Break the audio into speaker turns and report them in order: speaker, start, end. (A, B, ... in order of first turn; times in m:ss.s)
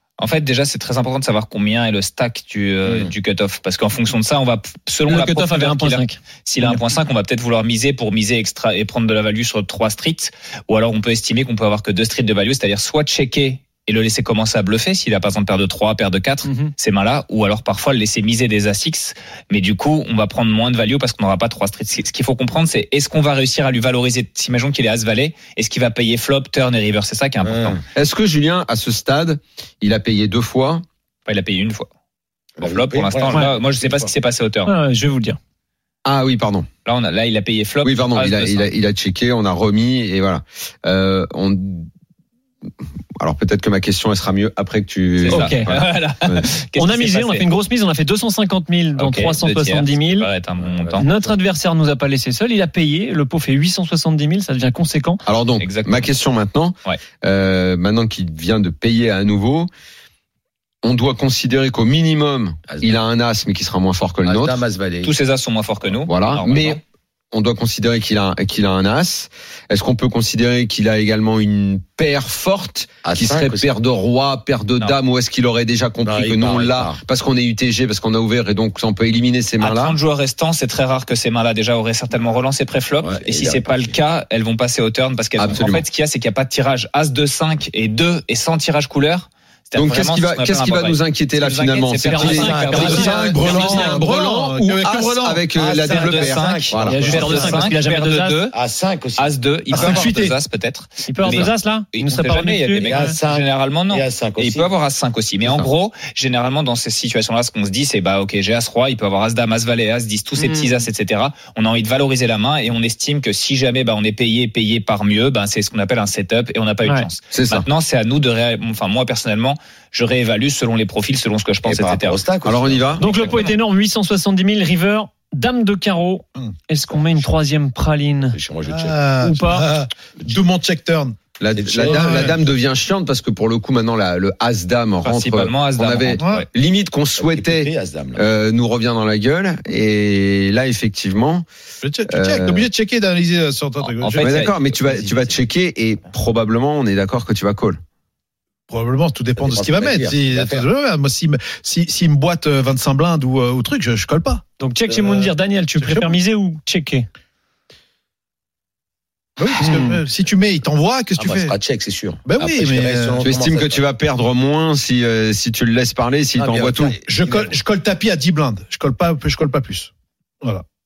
0:00.2-0:27.8 A
0:02.8-0:03.1 B
0:05.1-0:06.8 C
0:16.4-0:16.7 C
0:27.4-0:27.8 B
0:27.9-0:30.8 D
0:31.3-0:31.9 A
0:32.6-0:34.1 B
0:32.6-0:34.7 A
0:34.6-0:35.4 C
0:36.0-0:36.7 D
0:36.9-0:38.7 A
0:37.8-0:41.9 D
0:43.2-0:46.5 D
0:45.3-0:45.8 C
0:45.3-0:47.5 A
0:46.8-0:50.3 C
0:49.0-0:51.1 A
0:50.6-0:51.0 B
0:51.0-0:55.2 C
0:55.2-0:59.7 D
0:55.6-0:56.1 A
1:00.8-1:04.6 D
1:02.7-1:03.0 B
1:04.2-1:05.1 B
1:05.0-1:06.8 A
1:06.1-1:06.8 D
1:07.3-1:20.0 D
1:13.0-1:13.7 B
1:16.0-1:17.0 B
1:19.6-1:33.9 A
1:23.0-1:24.0 B
1:25.4-1:25.8 D
1:29.8-1:37.6 D
1:32.0-1:34.1 C
1:32.5-1:35.4 E
1:35.6-1:37.8 B
1:35.9-1:38.5 A
1:36.9-1:38.5 C
1:38.5-1:40.2 B
1:39.2-2:02.2 A
1:39.7-1:40.4 E
1:39.8-1:40.1 C
1:41.0-1:43.2 C
1:42.8-1:44.7 B
1:45.4-1:45.7 D
1:50.4-1:50.9 C
1:56.8-1:57.1 C
1:57.3-1:57.7 D
2:01.7-2:03.4 B
2:02.4-2:03.1 D
2:03.0-2:08.4 C
2:03.0-2:03.5 A
2:08.3-2:09.1 B
2:08.7-2:11.2 E
2:09.2-2:09.7 C
2:11.4-2:21.5 D
2:11.5-2:12.6 B
2:11.8-2:12.4 E
2:15.0-2:16.5 A
2:16.2-2:16.5 E
2:17.2-2:18.3 B
2:21.8-2:24.3 E
2:22.1-2:22.7 D
2:24.0-2:24.6 A
2:24.2-2:27.8 D
2:24.3-2:25.4 B
2:28.7-2:34.5 E
2:29.4-2:30.7 B
2:34.6-2:37.1 C
2:35.0-2:36.2 E
2:39.4-2:41.6 E
2:39.6-2:40.0 C
2:41.2-2:43.8 B
2:42.2-2:43.2 E
2:43.2-2:47.0 D
2:46.4-2:47.6 B
2:47.0-2:49.9 E